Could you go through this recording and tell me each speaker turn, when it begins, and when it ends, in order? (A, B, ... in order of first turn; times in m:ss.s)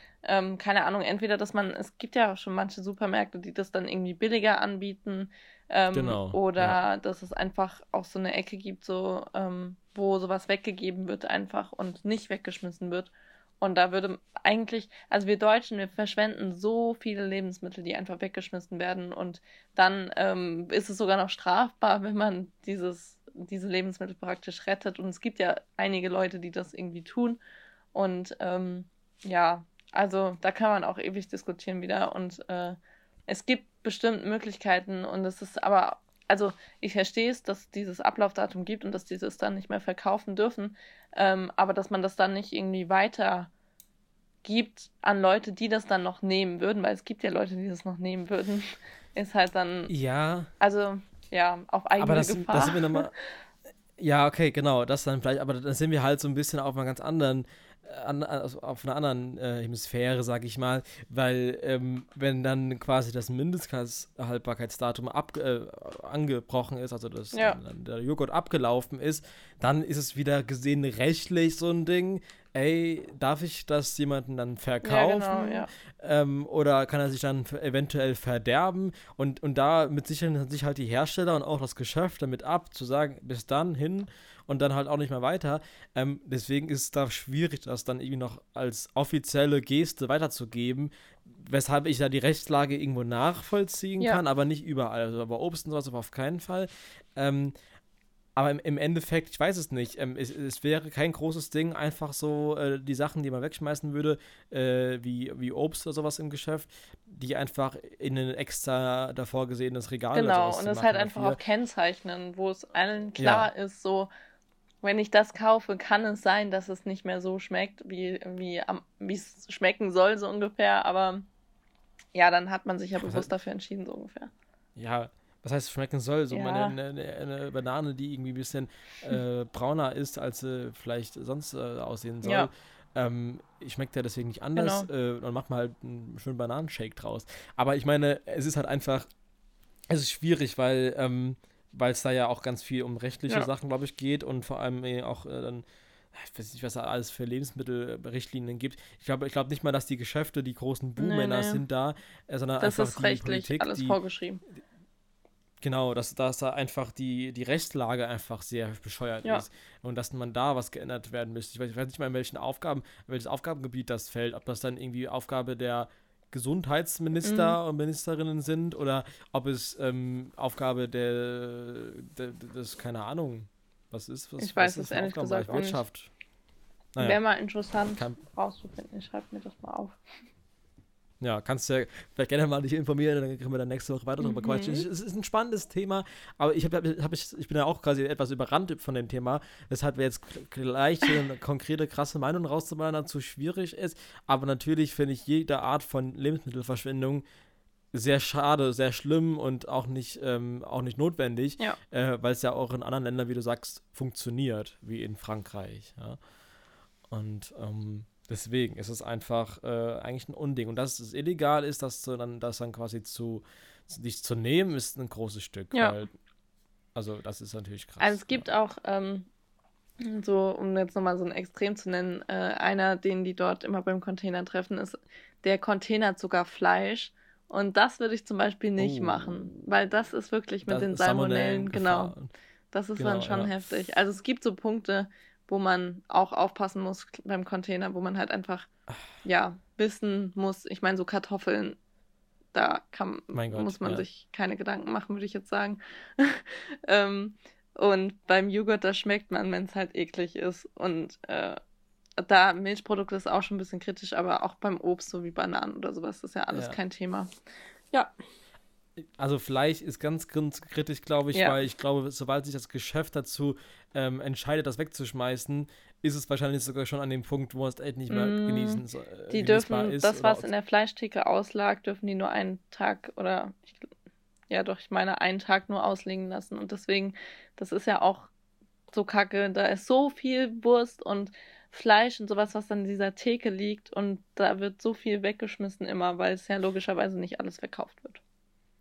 0:00.2-0:27.4 A
0:05.9-0:06.8 B
0:27.9-0:32.8 A
0:33.3-0:43.5 A
0:44.4-0:49.9 A
0:49.9-0:50.5 B
0:50.6-0:53.1 A
0:52.0-0:53.1 B
0:54.0-1:37.5 B
1:07.3-1:07.6 A
1:14.8-1:15.7 A
1:38.4-1:51.4 B
1:50.1-1:54.1 A
1:53.2-1:53.5 B
1:54.8-2:01.3 A
2:02.1-2:04.3 A
2:03.0-2:03.3 B
2:04.8-2:19.1 B
2:06.3-2:06.8 A
2:12.2-2:12.5 A
2:14.6-2:14.9 A
2:19.9-2:34.0 B
2:31.0-2:31.6 A
2:32.6-2:34.4 A
2:35.6-2:56.1 B
2:47.2-2:47.6 A
2:54.4-2:55.8 A
2:57.0-3:00.0 A
3:01.2-3:17.2 B
3:04.2-3:04.9 A
3:17.9-3:26.2 B
3:27.1-3:36.1 B
3:35.7-3:36.0 A
3:37.0-3:38.5 B
3:38.0-3:39.3 A
3:40.0-3:52.1 A
3:48.8-3:49.5 B
3:50.7-3:52.3 B
3:52.7-3:58.7 A
3:53.0-3:53.6 B
3:59.2-4:01.8 A
4:02.5-4:11.6 A
4:03.3-4:04.0 B
4:12.2-4:17.3 A
4:16.5-4:16.8 B
4:19.0-4:30.5 B
4:21.3-4:21.6 A
4:28.1-4:33.9 A
4:34.5-4:38.3 A
4:38.9-4:48.2 A